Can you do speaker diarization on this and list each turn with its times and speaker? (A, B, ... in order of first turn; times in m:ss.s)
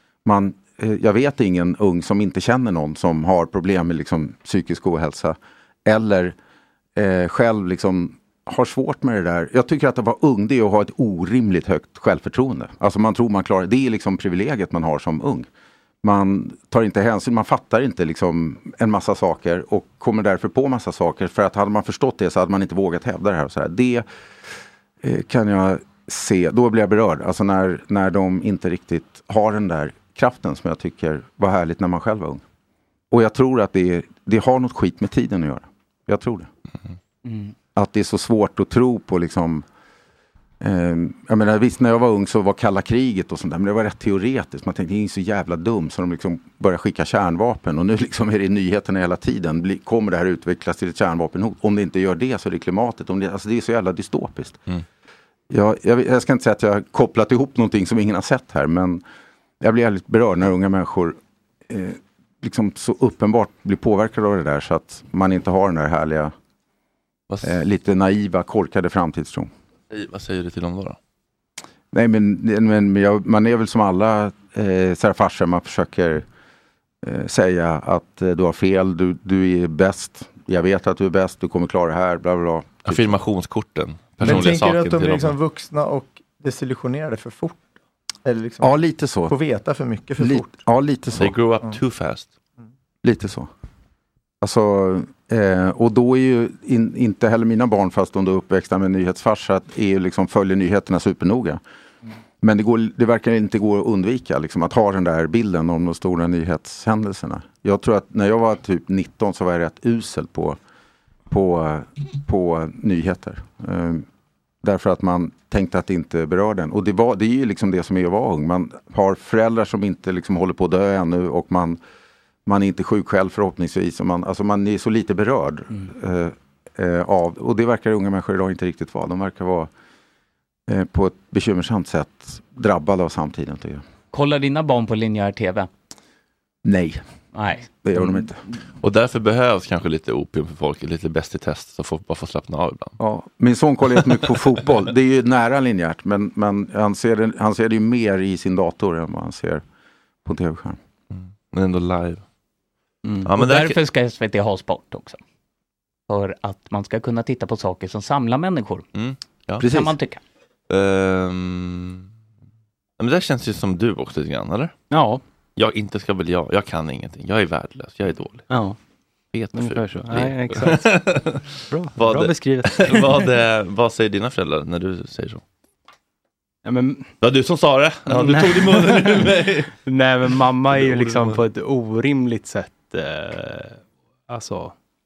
0:00.2-0:06.4 A
0:07.0-0:15.5 A
0:16.0-0:24.1 A
0:25.0-0:32.4 A
0:33.1-0:36.5 A
0:37.2-0:37.5 B
0:37.8-0:39.6 A
0:40.6-0:54.6 A
0:55.5-0:59.0 A
0:59.6-1:01.2 A
1:01.7-1:06.3 A
1:07.3-1:07.6 C
1:07.4-1:09.5 A
1:09.9-1:11.0 C
1:11.9-1:16.2 A
1:17.0-1:23.2 A
1:22.8-1:25.4 C
1:24.2-1:27.6 D
1:28.2-1:28.8 D
1:28.6-1:29.4 A
1:29.3-1:30.5 D
1:30.2-1:31.4 A
1:31.2-1:32.3 C
1:33.0-1:33.5 A
1:34.4-1:41.6 A
1:42.4-1:50.6 A
1:51.3-1:54.0 A
1:54.6-2:01.8 A
2:02.5-2:09.7 A
2:10.7-2:13.8 A
2:14.1-2:15.7 B
2:16.6-2:17.0 A
2:17.3-2:18.0 B
2:17.8-2:18.4 A
2:18.8-2:23.0 C
2:23.0-2:29.6 A
2:30.2-2:30.8 A
2:31.1-2:32.2 C
2:33.0-2:33.3 E
2:33.2-2:33.8 C
2:33.4-2:35.2 B
2:36.1-2:38.8 B
2:38.9-2:39.6 C
2:39.6-2:39.9 A
2:39.6-2:40.2 B
2:40.7-2:42.1 C
2:43.0-2:44.7 C
2:44.9-2:45.2 E
2:45.6-2:48.5 C
2:48.5-2:48.8 E
2:49.3-2:55.4 C
2:49.5-2:53.3 E
2:56.6-2:57.2 E
2:57.2-2:59.7 C
2:58.1-3:04.7 E
3:00.7-3:01.4 C